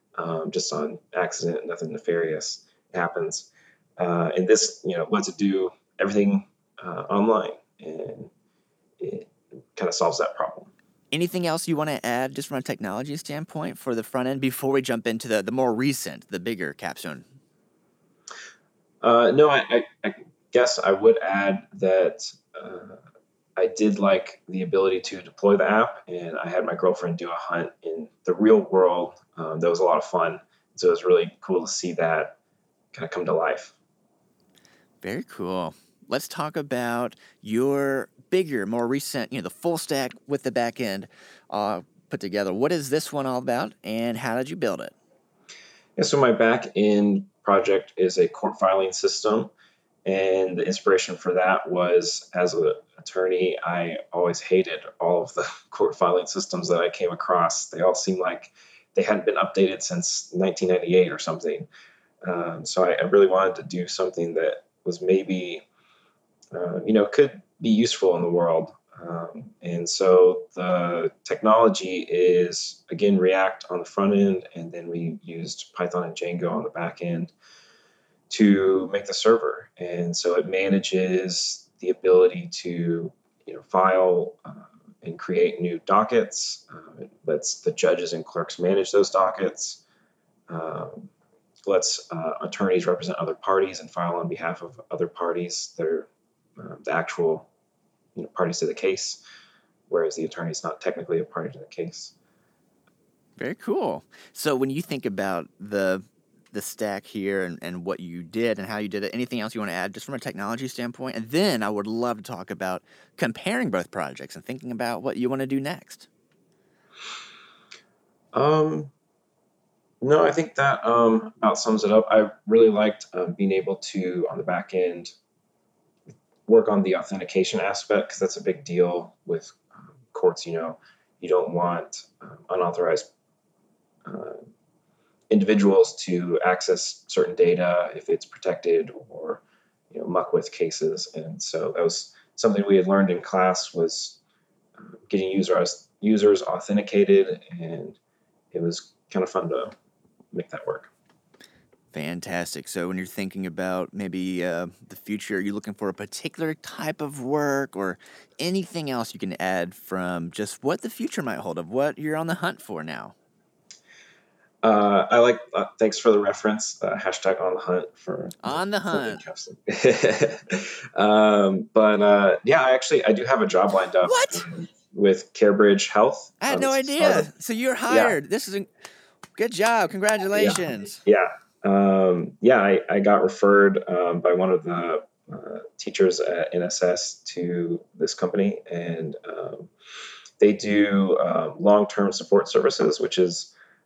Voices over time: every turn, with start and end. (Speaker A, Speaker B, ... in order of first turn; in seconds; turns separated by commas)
Speaker A: 0.2-8.3, Speaker A: 9.0-10.7, Speaker B: 11.1-17.2, Speaker A: 19.0-23.0, Speaker A: 23.6-32.4, Speaker A: 32.9-33.7, Speaker B: 35.0-44.9, Speaker A: 46.0-49.5, Speaker A: 50.0-61.7, Speaker A: 62.2-65.6, Speaker A: 66.5-77.3, Speaker A: 78.3-89.8, Speaker A: 90.5-91.1, Speaker A: 91.7-97.5, Speaker A: 98.1-99.2, Speaker A: 99.9-102.1, Speaker B: 103.4-116.1, Speaker A: 118.3-118.9, Speaker A: 120.0-125.1, Speaker A: 126.5-133.1, Speaker A: 134.1-134.4, Speaker A: 135.3-144.2, Speaker A: 144.8-148.0, Speaker A: 148.5-149.7, Speaker A: 150.3-150.9, Speaker B: 151.9-163.1, Speaker A: 164.6-177.3, Speaker B: 168.4-169.2, Speaker B: 174.0-174.4, Speaker B: 176.4-178.7, Speaker A: 177.9-178.2, Speaker B: 179.3-181.0, Speaker A: 180.3-189.7, Speaker A: 190.4-193.5